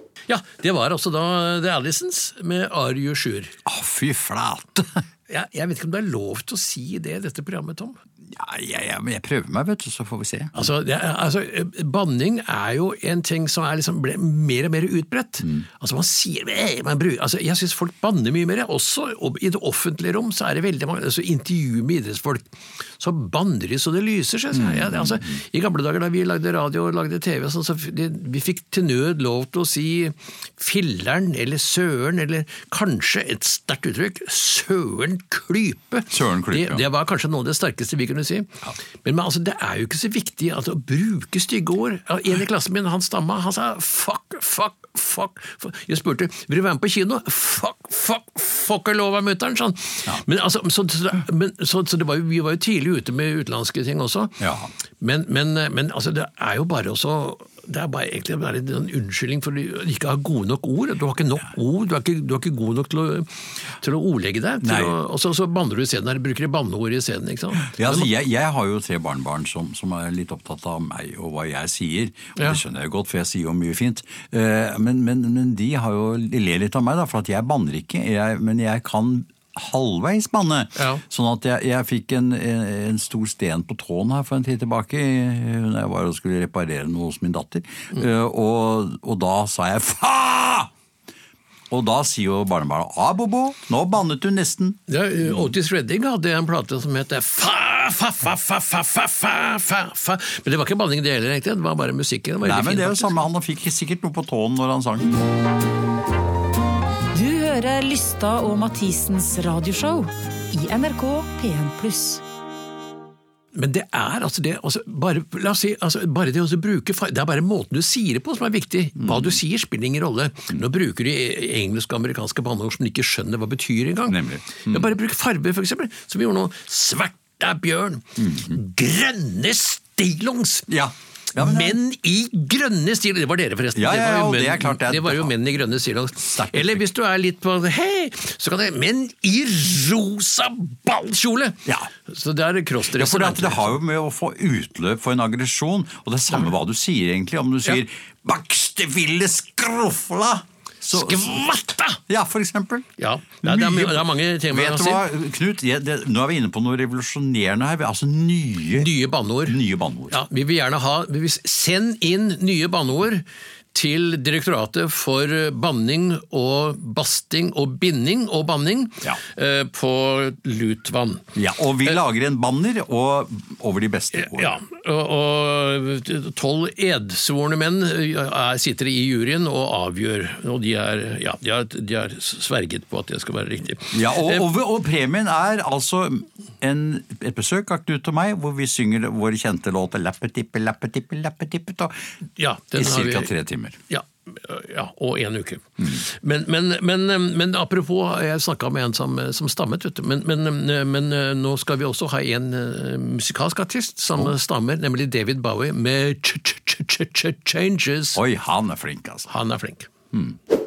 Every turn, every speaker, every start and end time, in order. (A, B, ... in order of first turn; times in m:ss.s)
0:00.3-0:03.6 A
0:03.6-0:05.0 B
0:05.3-0:08.0 A
0:08.2-0:10.6 B
0:10.5-0:54.4 A
0:24.5-0:25.4 B
0:36.1-0:36.9 B
0:54.4-0:54.7 B
0:55.0-1:08.1 A
1:04.6-1:05.0 B
1:07.7-1:30.7 B
1:20.8-1:21.0 A
1:31.7-1:35.5 B
1:34.9-1:43.2 A
1:42.4-1:45.2 B
1:47.1-1:52.2 C
1:53.5-2:10.7 A
1:59.0-1:59.4 B
2:04.1-2:04.9 B
2:08.2-2:08.6 B
2:10.7-2:11.8 B
2:11.3-2:23.8 A
2:13.7-2:15.4 B
2:16.2-2:16.8 B
2:22.9-2:31.4 B
2:30.9-2:32.0 A
2:32.1-2:32.9 B
2:33.0-2:35.0 A
2:33.4-2:38.9 B
2:38.7-2:39.6 A
2:39.4-2:40.2 B
2:40.1-2:51.3 A
2:51.4-2:54.6 B
2:54.1-3:04.5 A
3:03.9-3:12.0 B
3:12.4-3:13.3 A
3:12.7-3:13.8 B
3:13.9-3:28.2 A
3:28.2-3:29.3 B
3:29.3-3:29.9 A